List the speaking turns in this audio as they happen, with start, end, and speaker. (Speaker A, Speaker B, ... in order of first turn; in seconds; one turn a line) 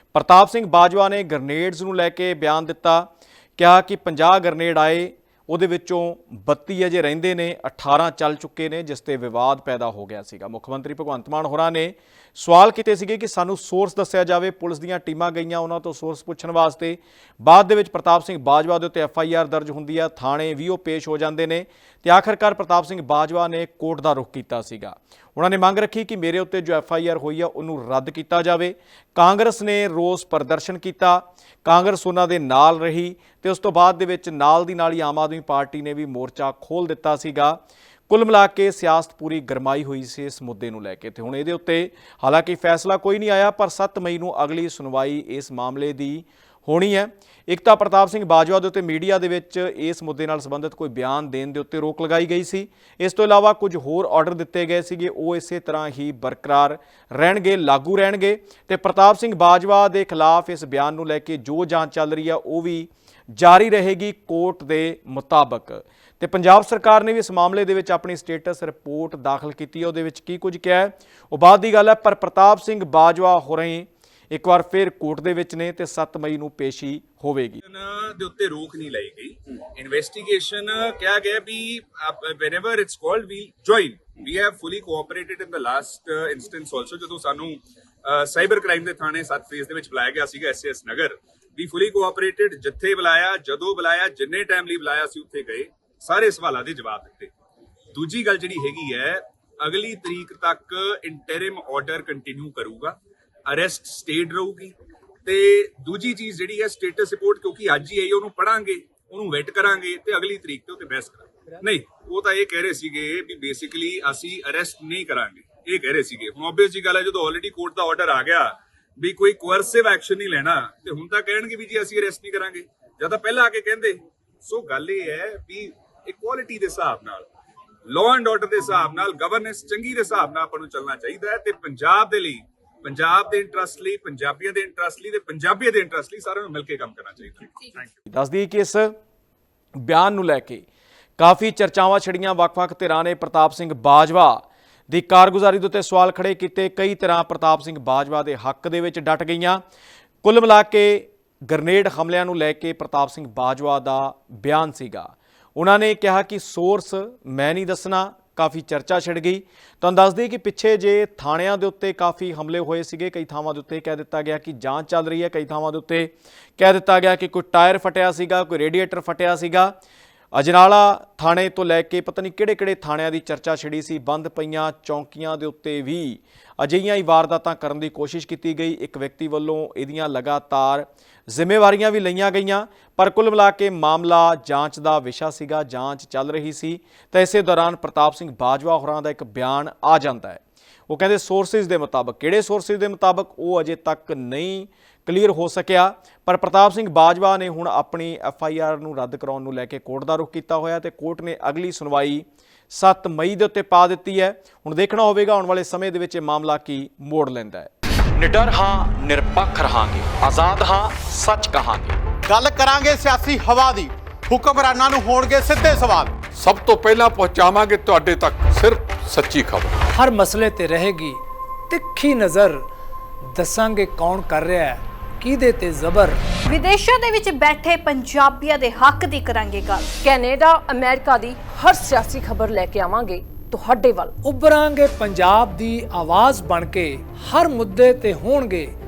Speaker A: 0.1-77.6
Speaker B: 77.7-97.3
Speaker B: 97.9-103.0
Speaker B: 103.5-127.3
Speaker B: 127.9-137.8
Speaker A: 138.1-138.9
Speaker A: 139.8-140.6
Speaker A: 141.2-149.6
Speaker A: 150.2-169.7
Speaker A: 170.3-212.0
Speaker C: 212.3-216.2
Speaker D: 216.4-219.8
Speaker E: 219.9-222.6
Speaker E: 223.3-226.2
Speaker F: 226.5-229.9
Speaker G: 230.0-234.2
Speaker E: 234.2-238.7